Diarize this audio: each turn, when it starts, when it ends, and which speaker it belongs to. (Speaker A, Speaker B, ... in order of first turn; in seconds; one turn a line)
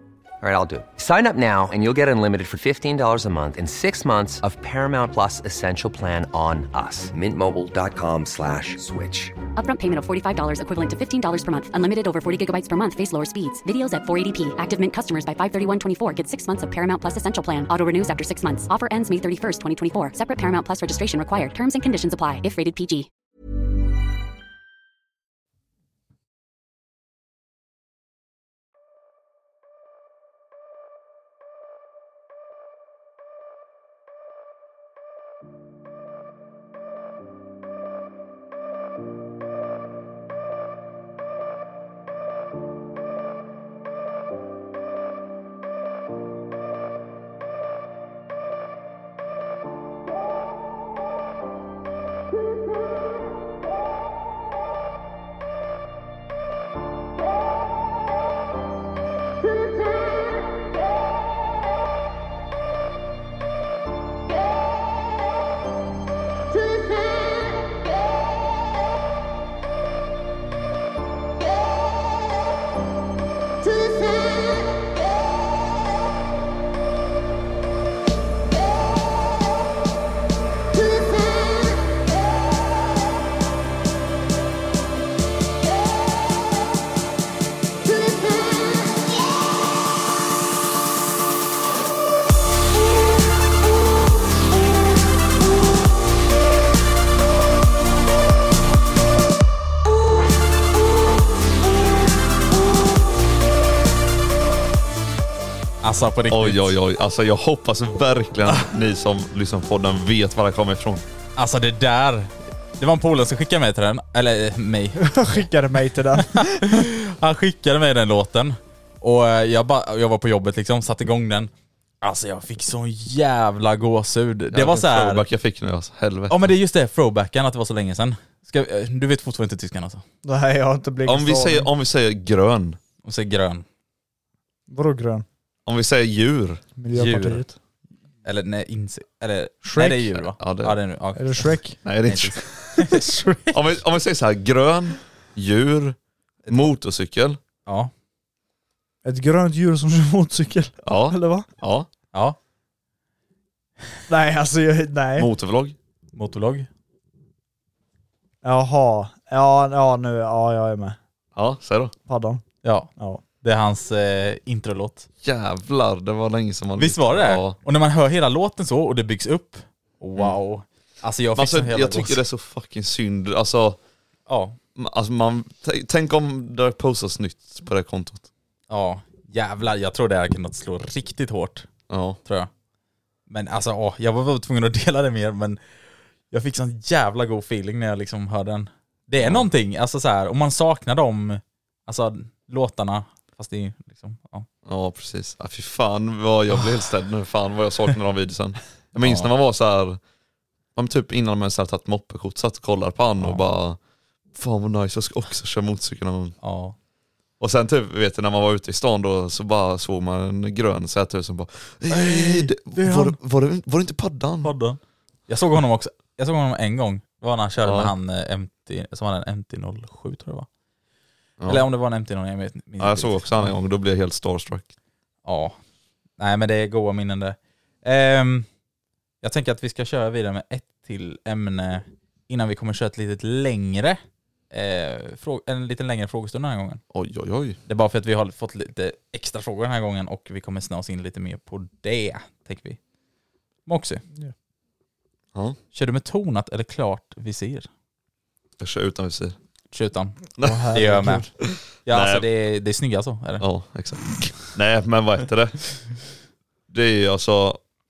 Speaker A: 0.4-9.4
Speaker B: 9.6-23.1
Speaker C: 105.8-106.8
Speaker D: 106.3-111.0
Speaker C: 111.4-115.4
Speaker E: 115.0-116.9
Speaker C: 116.2-121.5
Speaker C: 122.0-125.2
Speaker D: 124.5-126.5
Speaker C: 126.3-130.0
Speaker E: 130.2-131.7
Speaker D: 131.1-132.8
Speaker C: 133.1-133.7
Speaker E: 134.7-135.3
Speaker D: 135.7-136.6
Speaker E: 136.8-137.5
Speaker C: 136.9-137.4
Speaker C: 138.2-143.6
Speaker E: 139.6-140.1
Speaker D: 140.4-140.8
Speaker E: 141.2-141.8
Speaker D: 141.8-142.8
Speaker D: 143.5-146.0
Speaker D: 146.5-147.4
Speaker C: 147.7-147.9
Speaker E: 149.0-151.5
Speaker D: 150.8-151.9
Speaker E: 154.1-155.3
Speaker D: 155.2-155.8
Speaker C: 156.1-156.7
Speaker E: 158.4-161.0
Speaker D: 161.4-161.9
Speaker E: 162.1-162.4
Speaker C: 162.6-162.9
Speaker E: 163.0-163.2
Speaker C: 163.4-165.1
Speaker D: 165.2-167.6
Speaker C: 166.8-172.2
Speaker D: 171.4-173.8
Speaker C: 174.3-174.6
Speaker D: 174.8-178.3
Speaker C: 178.7-181.7
Speaker D: 181.9-182.2
Speaker C: 182.2-182.5
Speaker C: 183.3-185.6
Speaker C: 186.3-194.5
Speaker D: 189.2-189.5
Speaker D: 194.7-200.0
Speaker C: 199.0-199.3
Speaker D: 200.8-203.8
Speaker D: 204.3-206.4
Speaker C: 206.4-206.8
Speaker D: 207.4-214.5
Speaker C: 211.9-213.2
Speaker C: 214.4-220.5
Speaker D: 217.6-217.9
Speaker D: 221.4-221.7
Speaker C: 221.5-223.5
Speaker D: 222.8-224.7
Speaker C: 225.2-225.6
Speaker C: 226.2-228.5
Speaker C: 229.2-234.0
Speaker C: 234.5-236.8
Speaker D: 236.9-237.6
Speaker C: 237.7-242.8
Speaker C: 243.7-244.0
Speaker C: 245.7-247.7
Speaker D: 248.6-249.4
Speaker C: 249.7-251.3
Speaker D: 250.4-250.7
Speaker E: 250.4-251.3
Speaker D: 251.4-252.2
Speaker C: 251.8-253.4
Speaker D: 253.4-255.6
Speaker D: 256.7-257.6